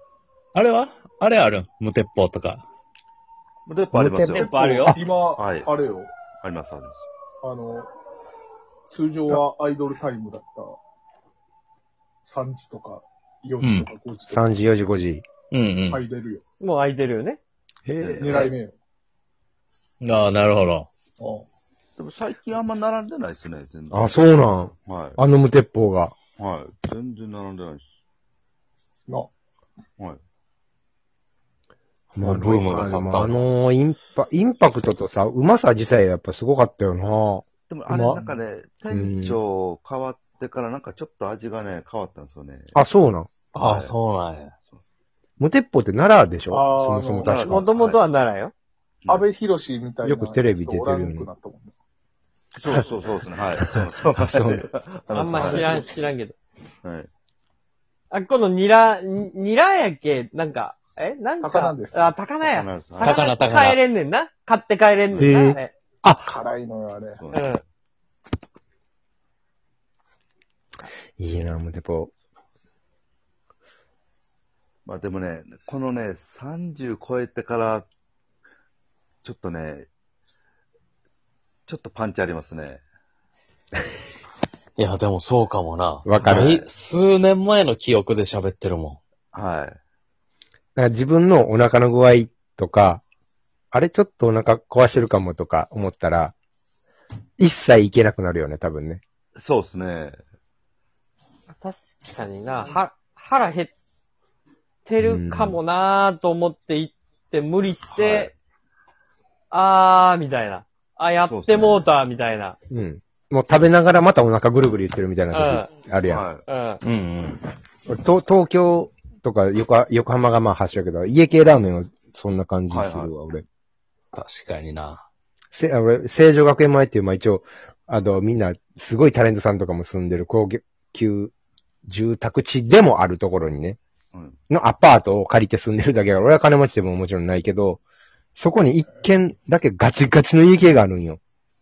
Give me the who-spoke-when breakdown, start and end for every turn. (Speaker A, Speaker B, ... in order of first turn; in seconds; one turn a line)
Speaker A: 0.6-2.6
Speaker B: 3.7-4.7
Speaker C: 3.9-5.0
Speaker D: 4.3-5.0
Speaker E: 5.0-6.1
Speaker B: 5.4-5.7
Speaker B: 6.3-7.0
Speaker E: 7.4-7.9
Speaker E: 8.9-10.8
Speaker E: 12.3-14.4
Speaker A: 13.6-13.9
Speaker C: 14.3-15.2
Speaker A: 15.5-16.0
Speaker E: 15.9-16.4
Speaker D: 16.6-17.4
Speaker C: 17.9-18.5
Speaker B: 18.0-18.5
Speaker E: 18.5-18.8
Speaker A: 20.0-20.9
Speaker E: 21.2-21.5
Speaker B: 22.0-24.2
Speaker C: 23.9-26.2
Speaker B: 24.9-25.2
Speaker B: 26.4-27.8
Speaker C: 32.1-38.2
Speaker A: 32.2-33.4
Speaker B: 37.7-42.8
Speaker C: 38.9-39.4
Speaker C: 42.7-43.3
Speaker B: 43.5-44.0
Speaker A: 43.5-44.5
Speaker C: 45.4-47.7
Speaker E: 46.5-47.3
Speaker B: 47.2-48.0
Speaker D: 47.4-48.5
Speaker E: 49.1-51.7
Speaker C: 50.0-51.3
Speaker B: 52.6-55.9
Speaker C: 54.1-54.6
Speaker D: 55.1-56.4
Speaker E: 55.5-55.9
Speaker B: 56.8-57.1
Speaker D: 58.1-65.7
Speaker E: 61.4-62.1
Speaker B: 62.4-63.3
Speaker A: 63.0-63.8
Speaker C: 65.2-66.3
Speaker E: 66.3-67.2
Speaker B: 67.2-67.6
Speaker D: 67.3-67.6
Speaker C: 71.2-72.1
Speaker B: 74.8-77.9
Speaker B: 79.2-79.9
Speaker B: 81.7-82.8
Speaker A: 84.8-89.0
Speaker C: 86.0-86.6
Speaker B: 86.3-86.7
Speaker B: 89.3-89.8
Speaker C: 90.8-93.0
Speaker C: 93.7-96.3
Speaker C: 97.4-99.0
Speaker B: 99.4-100.2
Speaker D: 101.5-103.7
Speaker D: 104.8-108.3
Speaker C: 105.0-105.6
Speaker B: 107.9-108.3
Speaker D: 109.5-112.6
Speaker B: 111.2-111.9
Speaker C: 112.7-116.2
Speaker D: 115.3-115.7
Speaker B: 116.1-116.4
Speaker D: 116.5-116.8
Speaker A: 116.8-117.5
Speaker C: 117.9-123.5
Speaker B: 122.7-123.1
Speaker A: 124.1-125.0
Speaker C: 125.5-131.3
Speaker C: 131.9-133.8
Speaker C: 134.5-137.8
Speaker C: 138.4-141.2